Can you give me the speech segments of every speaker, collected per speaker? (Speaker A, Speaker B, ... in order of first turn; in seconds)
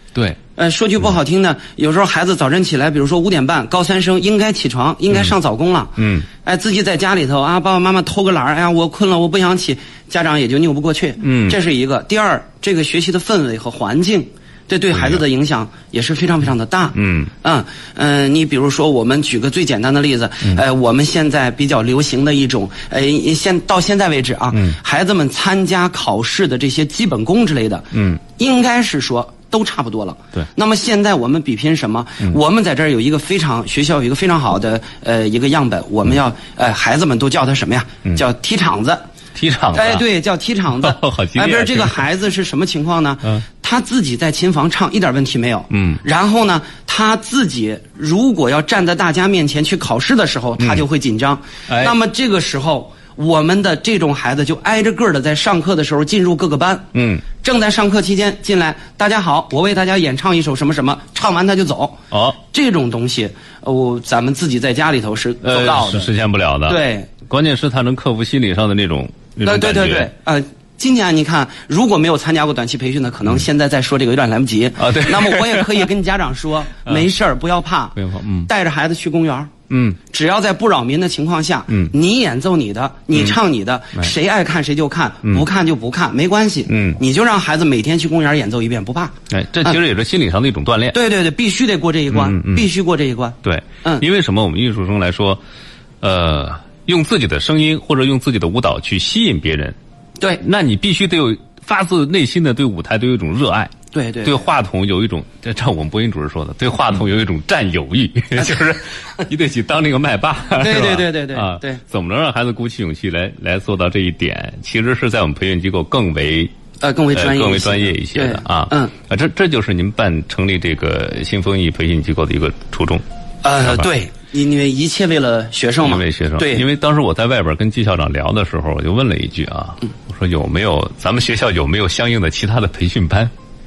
Speaker A: 0.6-39.0, 39.7-66.1, 66.7-67.1, 69.5-79.5, 80.1-89.8, 90.9-94.0, 103.9-104.4, 110.6-111.8, 116.8-118.9, 123.4-126.7
Speaker B: 6.0-6.3, 11.2-11.6, 14.9-15.2, 16.9-17.3, 24.5-24.8, 27.9-28.2, 39.4-40.1, 40.7-42.0, 45.7-46.0, 51.7-52.0, 56.9-57.2, 62.1-62.4, 65.4-70.1, 74.8-75.9, 78.0-78.5, 79.7-80.0, 86.7-87.0, 89.3-91.0, 92.1-92.7, 93.4-95.4, 96.0-99.8, 100.4-116.5, 117.1-123.0, 123.6-123.9, 125.8-133.3